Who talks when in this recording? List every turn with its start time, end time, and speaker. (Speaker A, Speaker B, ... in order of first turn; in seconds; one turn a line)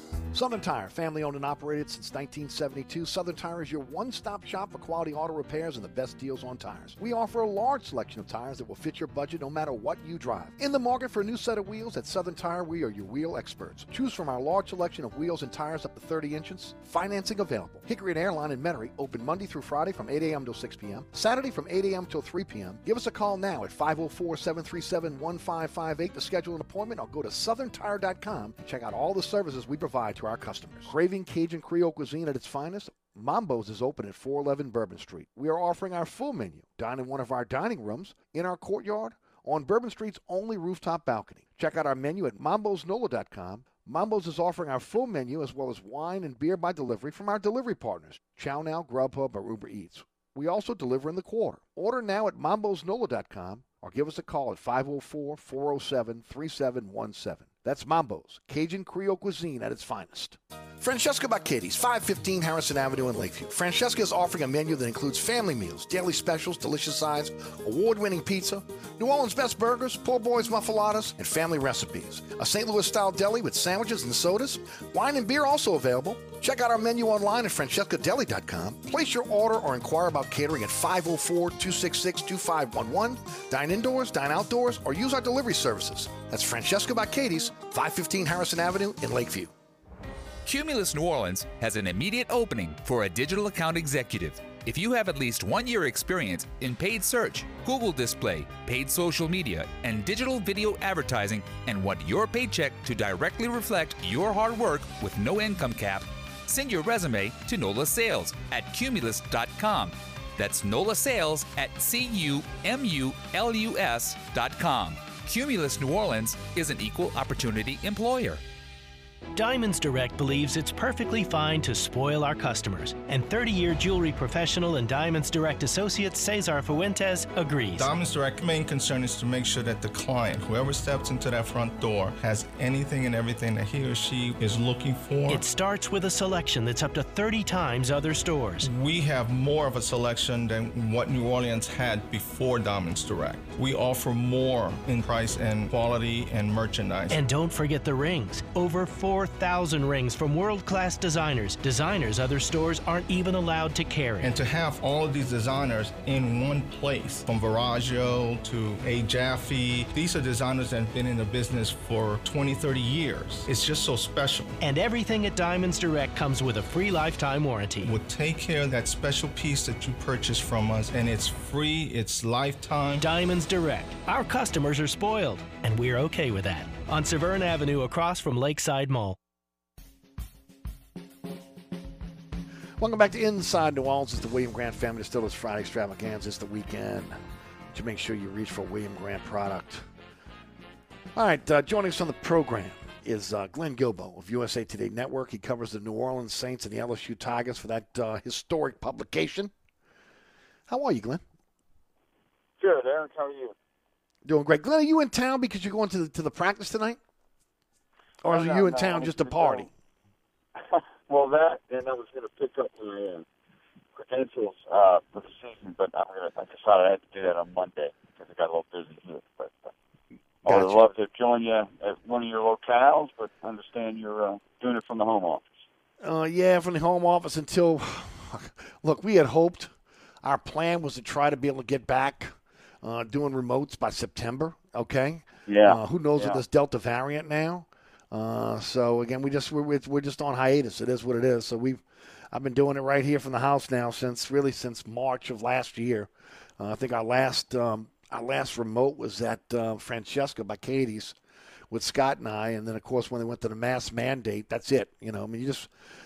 Speaker A: 0.3-89.5
Speaker B: 90.4-118.4
Speaker C: 119.3-127.9
Speaker D: 127.8-135.4
Speaker C: 135.3-138.7
Speaker D: 138.6-147.2
Speaker C: 147.1-154.3
Speaker D: 154.2-164.5
Speaker C: 164.6-167.9
Speaker D: 167.8-173.1
Speaker C: 173.0-179.2
Speaker A: 182.8-187.2
Speaker A: 187.7-189.8
Speaker A: 191.1-199.5
Speaker A: 200.7-201.2
Speaker E: 202.6-203.5
Speaker A: 204.2-207.0
Speaker A: 208.2-209.7
Speaker E: 208.2-209.7
Speaker E: 210.6-213.2
Speaker E: 213.9-219.7
Speaker E: 220.4-225.5
Speaker A: 220.5-220.8
Speaker A: 226.0-241.8
Speaker E: 235.5-236.4
Speaker A: 242.3-251.2
Speaker A: 251.7-255.7